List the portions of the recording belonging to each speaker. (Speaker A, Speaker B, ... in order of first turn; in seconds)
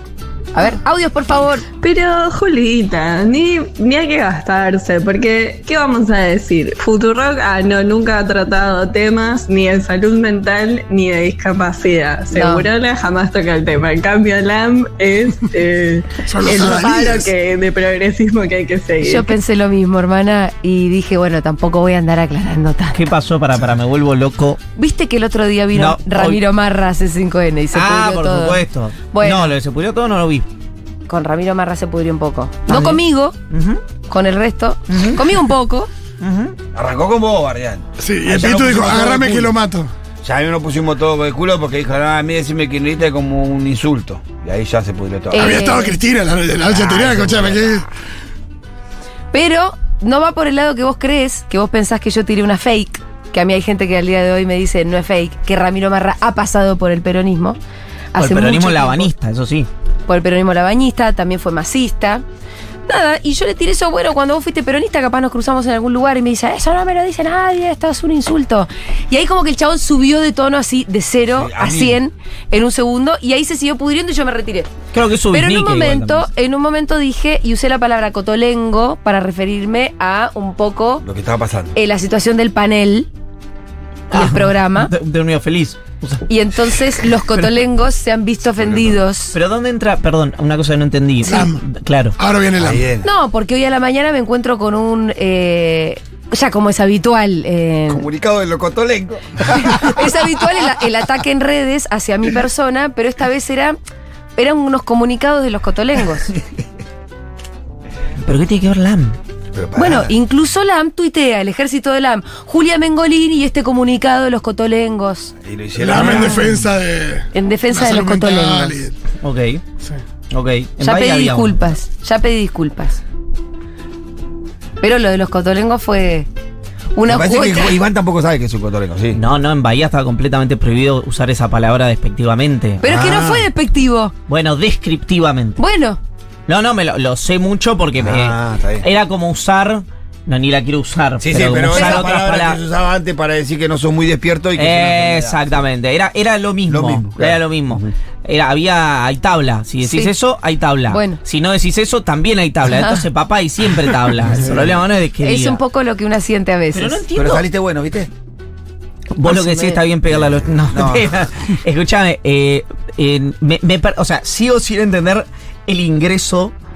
Speaker A: 0.6-1.7, 12.3-12.7, 19.0-23.0, 24.8-29.5, 31.1-33.4, 34.1-35.9, 45.3-46.0, 49.3-57.6, 58.1-59.1, 60.1-62.2, 62.9-74.7, 75.3-81.0, 81.8-83.1, 84.1-84.9, 86.3-89.3, 93.0-98.1, 99.5-103.8, 104.4-106.3, 109.8-115.3, 117.3-118.8, 120.8-123.0, 124.8-126.3, 127.0-127.8, 132.8-134.1, 135.6-136.0, 141.8-142.1, 149.8-150.1, 150.9-151.2, 152.7-153.0, 155.2-157.0, 159.3-159.8
Speaker B: 1.8-19.3
Speaker C: 16.3-17.3, 38.0-39.9, 45.4-47.9, 91.2-91.6, 92.2-92.8, 115.8-119.0
Speaker D: 22.9-24.6, 25.7-26.4, 27.7-30.5, 32.7-33.8, 34.9-35.3, 36.2-36.6, 58.2-59.7, 74.9-76.3, 84.1-86.3, 87.3-87.6, 89.3-92.2, 108.2-109.2, 116.0-116.5, 119.2-119.6, 120.3-121.6, 129.1-132.8, 134.3-135.6, 136.5-142.6, 144.6-155.6, 156.7-157.5, 159.2-166.5
Speaker E: 36.7-39.5, 40.2-45.8, 46.6-47.9, 71.3-72.0, 81.0-81.8, 88.6-89.0, 92.6-93.1, 97.9-100.8, 109.5-110.2, 115.4-116.6, 127.0-129.2, 132.8-133.5, 138.0-138.9, 141.2-145.4, 146.7-147.9, 154.3-154.8, 157.2-158.1, 160.1-161.3